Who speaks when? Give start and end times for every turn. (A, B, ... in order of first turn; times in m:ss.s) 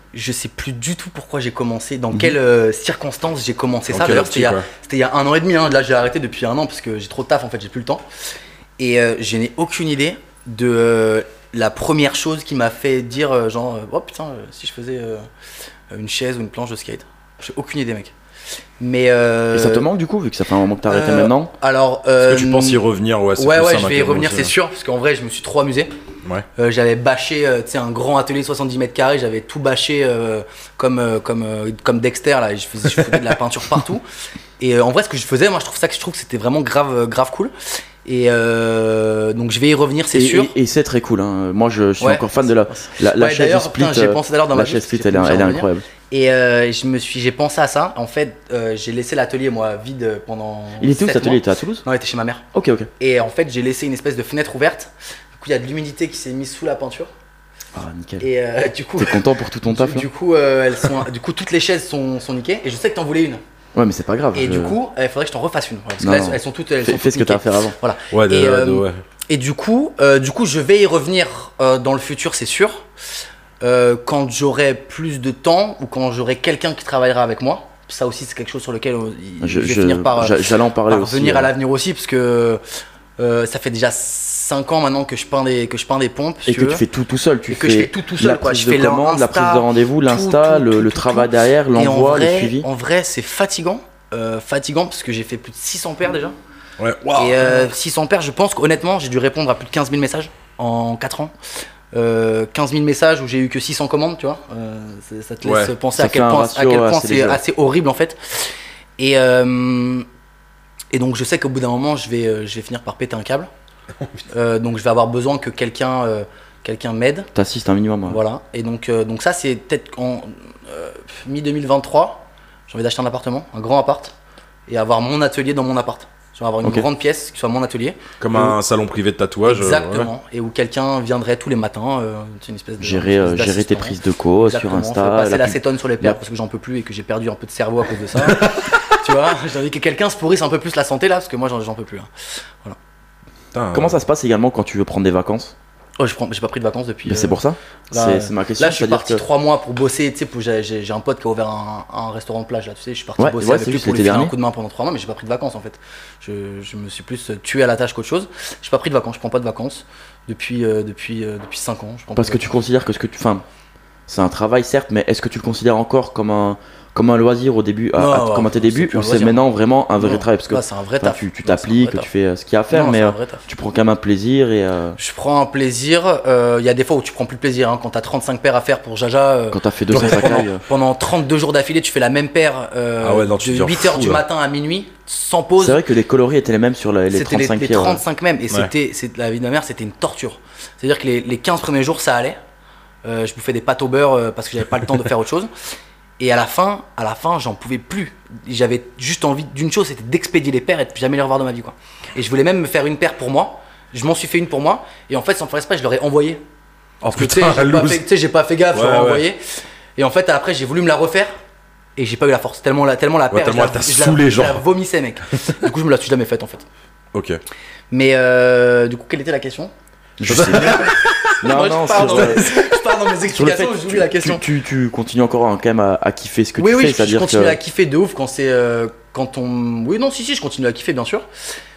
0:00.1-0:08.0 A
0:03.9-0:04.7 B
0:08.8-0:15.2 A
0:15.9-0:18.1 A
0:18.8-0:19.8 A
0:19.5-0:21.5 C
0:20.9-0:22.8 A
0:22.2-0:24.5 B
0:23.4-0:25.9 A
0:26.6-0:34.0 A
0:34.6-0:37.5 A
0:38.0-0:40.5 A
0:40.1-0:45.8 C
0:42.0-0:52.4 A
0:50.8-0:51.8 C
0:52.5-0:52.9 C
0:53.0-0:57.1 A
0:57.7-0:58.3 C
0:58.2-1:03.4 A
0:59.0-1:00.1 C
1:03.7-1:04.8 C
1:04.3-1:12.8 A
1:06.0-1:07.8 C
1:08.1-1:09.0 B
1:13.6-1:20.4 A
1:19.4-1:21.5 C
1:20.9-1:22.6 A
1:23.2-1:26.8 A
1:26.4-1:32.7 C
1:27.5-1:36.3 A
1:36.8-1:37.7 B
1:37.2-1:41.3 A
1:41.9-1:50.0 A
1:45.4-1:45.7 B
1:46.0-1:47.4 C
1:50.9-1:53.5 A
1:54.3-1:57.3 A
1:57.3-1:58.2 C
1:58.1-2:04.1 A
2:04.7-2:08.0 A
2:08.2-2:10.1 B
2:09.4-2:22.1 A
2:12.8-2:16.2 C
2:18.3-2:18.6 B
2:23.5-2:24.0 B
2:23.7-2:25.5 C
2:26.0-2:27.4 A
2:27.0-2:29.2 C
2:27.9-2:42.4 A
2:33.2-2:34.3 C
2:42.1-2:43.4 C
2:44.1-2:55.0 C
2:48.0-2:49.4 A
2:50.0-2:52.1 A
2:52.7-2:53.5 A
2:55.0-3:05.8 A
2:59.5-3:00.6 C
2:59.9-3:00.4 B
3:03.0-3:04.2 B
3:05.6-3:08.0 C
3:07.1-3:12.4 A
3:13.0-3:15.5 A
3:16.2-3:26.4 A
3:27.0-3:28.0 B
3:27.1-3:29.4 A
3:28.7-3:29.2 B
3:30.0-3:31.3 A
3:32.0-3:36.6 A
3:33.3-3:34.6 B
3:37.1-3:37.4 B
3:37.9-3:39.7 A
3:40.2-3:42.7 C
3:40.2-3:41.0 B
3:40.5-3:44.4 A
3:43.3-3:47.6 C
3:46.6-3:51.2 A